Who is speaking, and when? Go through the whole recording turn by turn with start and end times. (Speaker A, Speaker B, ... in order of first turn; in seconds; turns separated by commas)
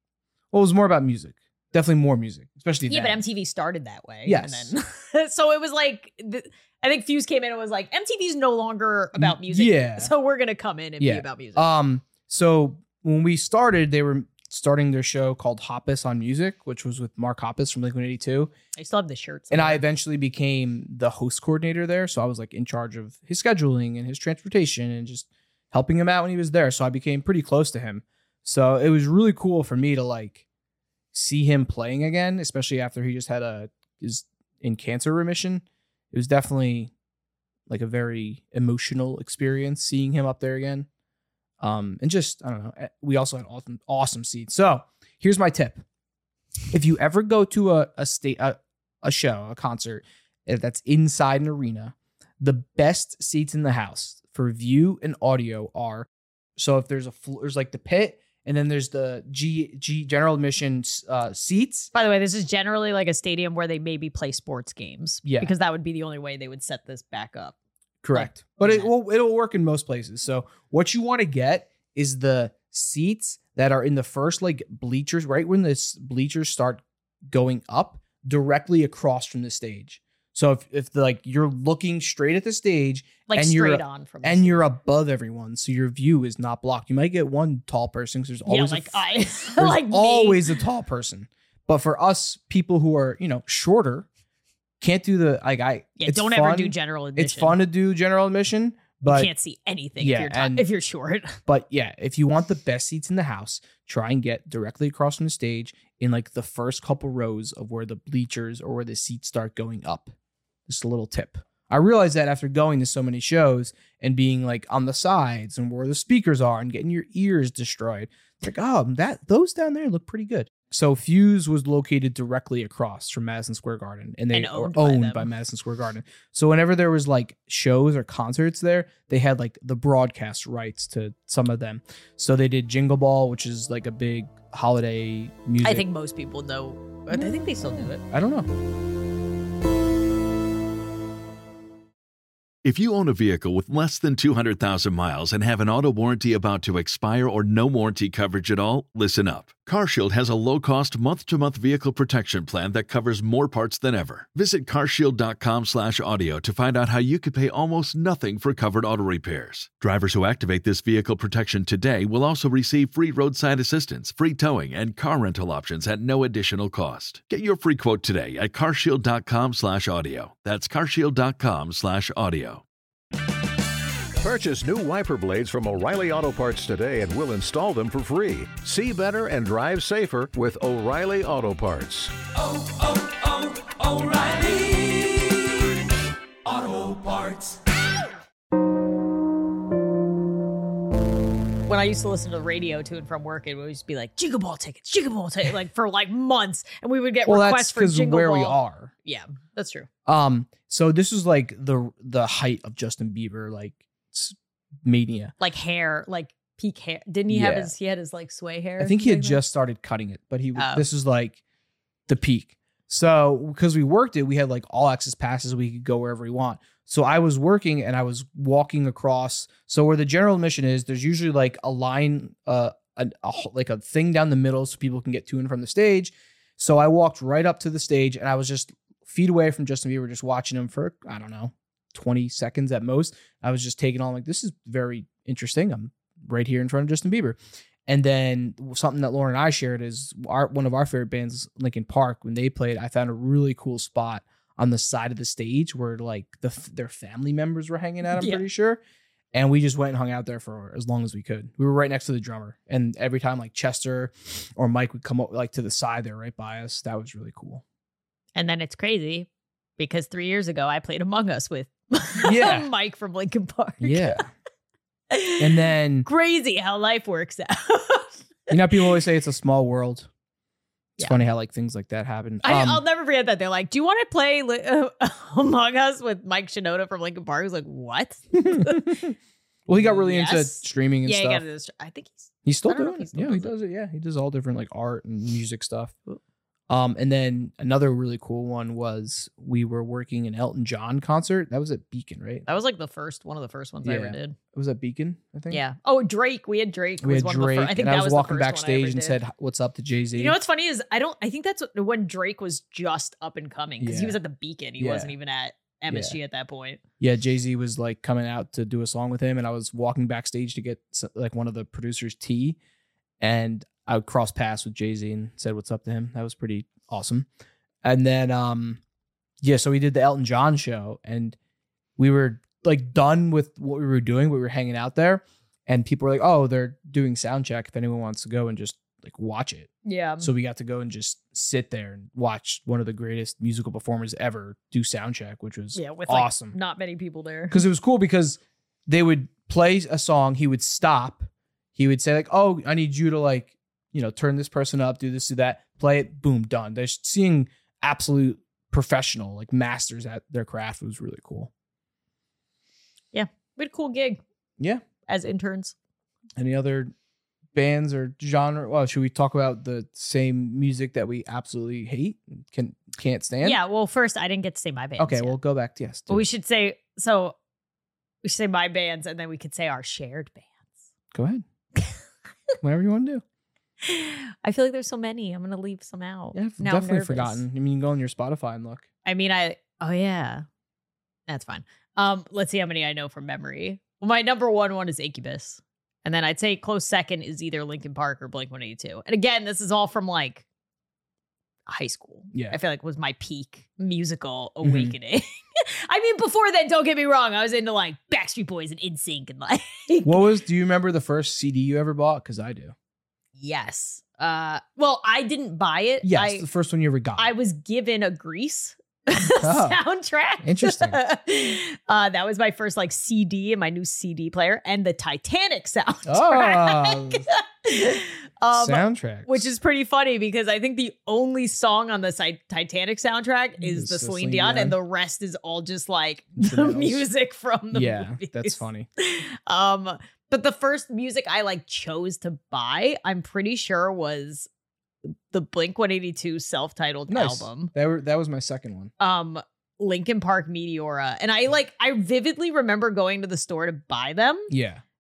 Speaker A: 0.5-3.2, Speaker B: 2.9-11.7, Speaker A: 4.2-4.7, Speaker A: 9.2-10.1, Speaker A: 11.0-18.5, Speaker B: 18.8-19.8, Speaker A: 19.5-30.4, Speaker A: 31.1-36.9, Speaker A: 37.7-40.9, Speaker A: 41.6-45.8, Speaker A: 46.7-61.9, Speaker B: 61.9-67.5, Speaker A: 65.2-65.5, Speaker A: 68.0-94.1, Speaker B: 68.1-68.9, Speaker B: 83.3-84.7, Speaker B: 88.5-90.5, Speaker A: 94.8-99.3, Speaker B: 96.0-97.6, Speaker B: 99.1-101.4, Speaker A: 100.0-100.7, Speaker A: 101.5-110.1, Speaker A: 110.7-135.9, Speaker B: 124.3-125.3, Speaker B: 135.6-138.0, Speaker A: 137.1-138.5, Speaker C: 142.6-172.6, Speaker D: 174.2-185.4, Speaker D: 186.4-187.6, Speaker B: 191.7-199.9, Speaker A: 197.3-198.9, Speaker A: 200.1-205.3, Speaker B: 205.4-209.4, Speaker A: 207.3-207.7, Speaker A: 208.8-211.4, Speaker B: 210.6-210.9, Speaker A: 212.1-248.8, Speaker B: 248.1-248.5, Speaker A: 249.3-257.6, Speaker B: 258.4-264.2, Speaker A: 262.2-262.7, Speaker A: 263.8-264.3, Speaker B: 265.1-268.9, Speaker A: 265.4-266.1, Speaker A: 268.5-270.1, Speaker A: 271.0-272.8, Speaker B: 272.4-279.0, Speaker A: 278.3-281.5, Speaker B: 279.8-283.5, Speaker A: 282.4-285.9, Speaker A: 286.7-292.5, Speaker B: 292.5-294.4, Speaker A: 293.8-295.6, Speaker B: 295.5-299.2, Speaker A: 297.0-300.4, Speaker B: 300.1-306.8, Speaker A: 303.8-304.2, Speaker A: 304.8-305.1, Speaker A: 305.9-306.2, Speaker A: 307.0-312.6, Speaker A: 313.2-317.3, Speaker A: 317.8-318.8, Speaker A: 319.4-321.4, Speaker A: 322.0-336.6, Speaker B: 329.9-330.3, Speaker B: 335.8-337.6, Speaker A: 337.5-351.5, Speaker B: 353.1-354.2, Speaker A: 354.6-354.8, Speaker B: 355.1-355.7, Speaker A: 356.4-356.9, Speaker A: 357.5-363.6, Speaker B: 363.4-365.4, Speaker A: 365.0-366.3, Speaker B: 366.1-367.4, Speaker B: 368.2-370.5, Speaker A: 371.1-371.4, Speaker A: 372.6-373.2, Speaker B: 373.8-377.4, Speaker A: 376.3-378.9, Speaker B: 379.1-380.5, Speaker B: 381.3-390.4, Speaker B: 391.7-400.2, Speaker A: 392.3-392.6, Speaker A: 394.6-394.9, Speaker A: 400.0-402.8, Speaker B: 403.4-406.5, Speaker A: 406.0-407.3, Speaker B: 407.2-434.5, Speaker A: 409.2-409.8, Speaker A: 410.4-411.0, Speaker A: 416.1-417.2, Speaker A: 418.5-419.5, Speaker A: 423.6-424.8, Speaker A: 426.4-427.1, Speaker A: 427.7-428.9, Speaker B: 435.1-437.7, Speaker A: 437.1-438.9, Speaker B: 439.0-444.5, Speaker A: 444.5-444.8